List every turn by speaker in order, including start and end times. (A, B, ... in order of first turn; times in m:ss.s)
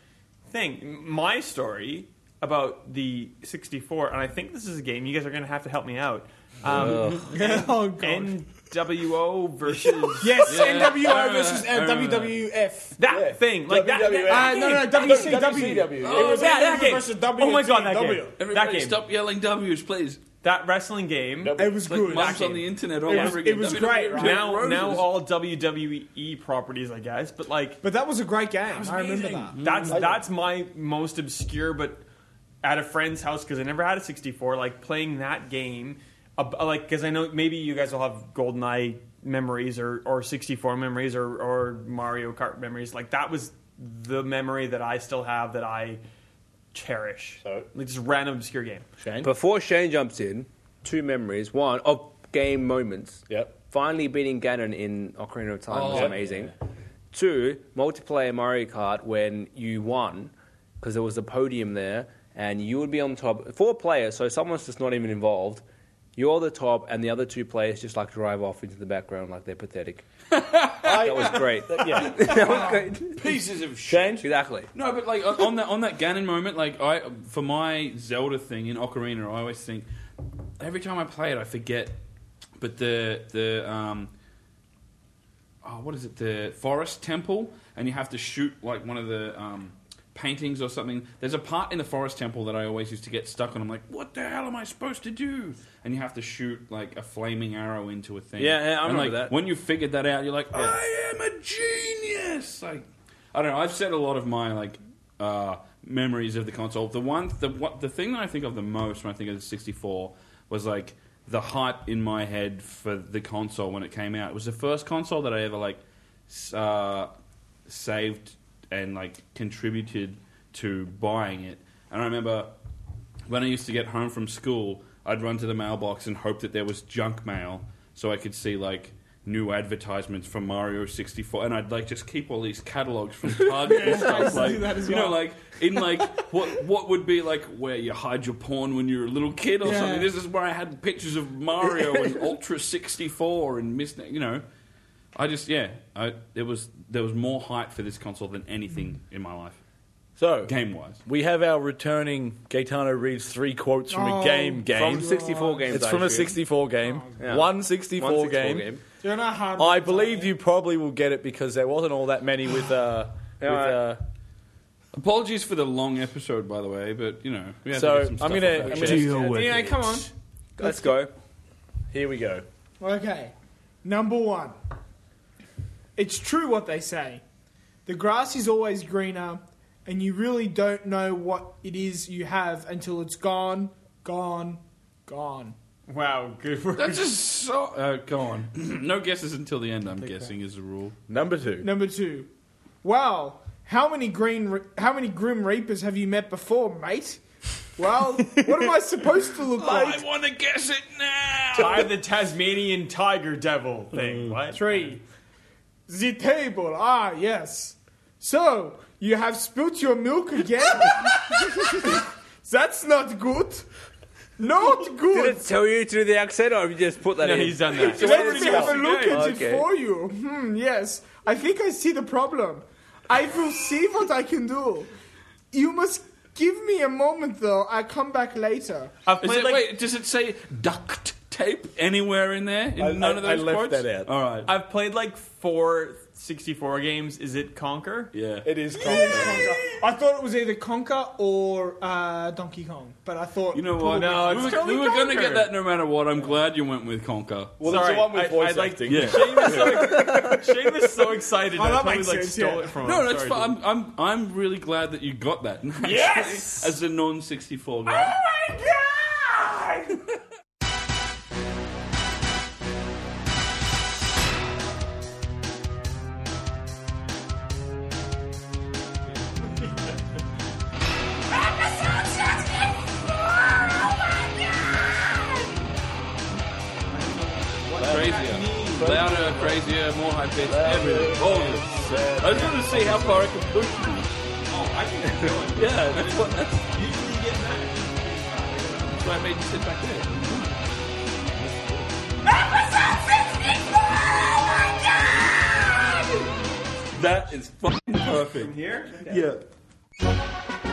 0:00.5-0:10.9 A
0:06.6-0:07.3 B
0:06.8-0:07.2 C
0:07.2-0:08.4 D
0:09.9-0:13.0 D
0:10.4-0:12.4 C
0:13.0-0:19.0 A
0:13.1-0:16.6 E
0:14.2-0:18.4 D
0:16.0-0:17.0 C
0:18.4-0:20.2 C
0:20.4-0:23.4 A
0:21.4-0:22.0 E
0:21.6-0:24.7 D
0:21.9-0:25.2 C
0:24.1-0:27.8 A
0:27.8-0:29.6 D
0:28.6-0:30.2 C
0:29.6-0:32.0 A
0:29.9-0:30.2 E
0:32.6-0:46.0 A
0:46.7-0:48.9 A
0:47.4-0:47.7 E
0:49.0-0:49.3 E
0:49.2-0:56.5 B
0:53.3-0:53.5 E
0:55.7-0:56.2 C
0:55.9-0:56.5 E
0:57.1-1:05.6 B
1:06.2-1:10.0 B
1:10.3-1:14.2 C
1:10.8-1:12.7 E
1:10.8-1:13.2 B
1:13.9-1:14.2 E
1:14.2-1:14.7 B
1:14.7-1:19.8 C
1:20.6-1:22.0 C
1:22.6-1:24.1 C
1:25.6-1:57.1 C
1:38.4-1:39.3 B
1:57.7-2:02.5 C
2:03.3-2:24.4 C
2:13.5-2:16.4 D
2:19.6-2:20.1 D
2:25.1-2:29.6 C
2:30.2-2:38.7 E
2:30.4-2:31.0 C
2:33.9-2:35.8 D
2:34.7-2:36.4 B
2:37.2-2:38.8 B
2:39.0-2:40.3 D
2:39.6-2:44.0 E
2:43.4-2:43.9 B
2:44.9-2:49.7 C
2:47.7-2:49.7 E
2:48.7-2:49.8 B
2:49.1-2:50.1 D
2:50.6-2:51.1 B
2:51.9-2:52.4 E
2:52.8-2:54.6 D
2:56.0-2:57.2 D
2:57.8-3:05.5 D
3:05.9-3:07.2 A
3:06.8-3:11.0 C
3:10.0-3:10.3 A
3:11.1-3:11.7 E
3:11.6-3:12.3 D
3:12.8-3:17.2 D
3:17.8-3:20.0 D
3:18.4-3:18.7 A
3:19.6-3:21.9 C
3:21.5-3:24.7 A
3:24.5-3:25.0 D
3:25.9-3:33.7 D
3:34.4-3:35.4 D
3:35.1-3:39.7 B
3:37.2-3:39.2 A
3:37.8-3:44.9 D
3:45.5-3:48.9 D
3:49.0-3:49.7 A
3:49.2-3:54.5 C
3:52.8-3:54.1 E
3:54.4-3:58.1 A
3:58.1-3:59.5 C
3:58.4-3:59.6 E
3:58.7-4:04.7 D
4:03.5-4:07.8 C
4:03.9-4:05.5 A
4:07.6-4:10.4 E
4:07.6-4:13.5 A
4:08.8-4:10.3 C
4:11.5-4:12.8 D
4:12.8-4:18.2 C
4:15.8-4:16.7 A
4:17.9-4:20.0 A
4:31.4-4:34.2 C
4:36.9-4:39.0 A
4:37.8-4:39.7 E
4:37.8-4:44.1 C
4:40.4-4:43.4 E
4:44.5-4:49.1 A
4:45.5-4:46.7 C
4:49.0-4:50.6 C
4:51.4-4:51.8 E
4:52.6-4:56.2 C
4:56.9-4:58.5 C
4:58.3-4:59.3 A
4:59.0-4:59.4 C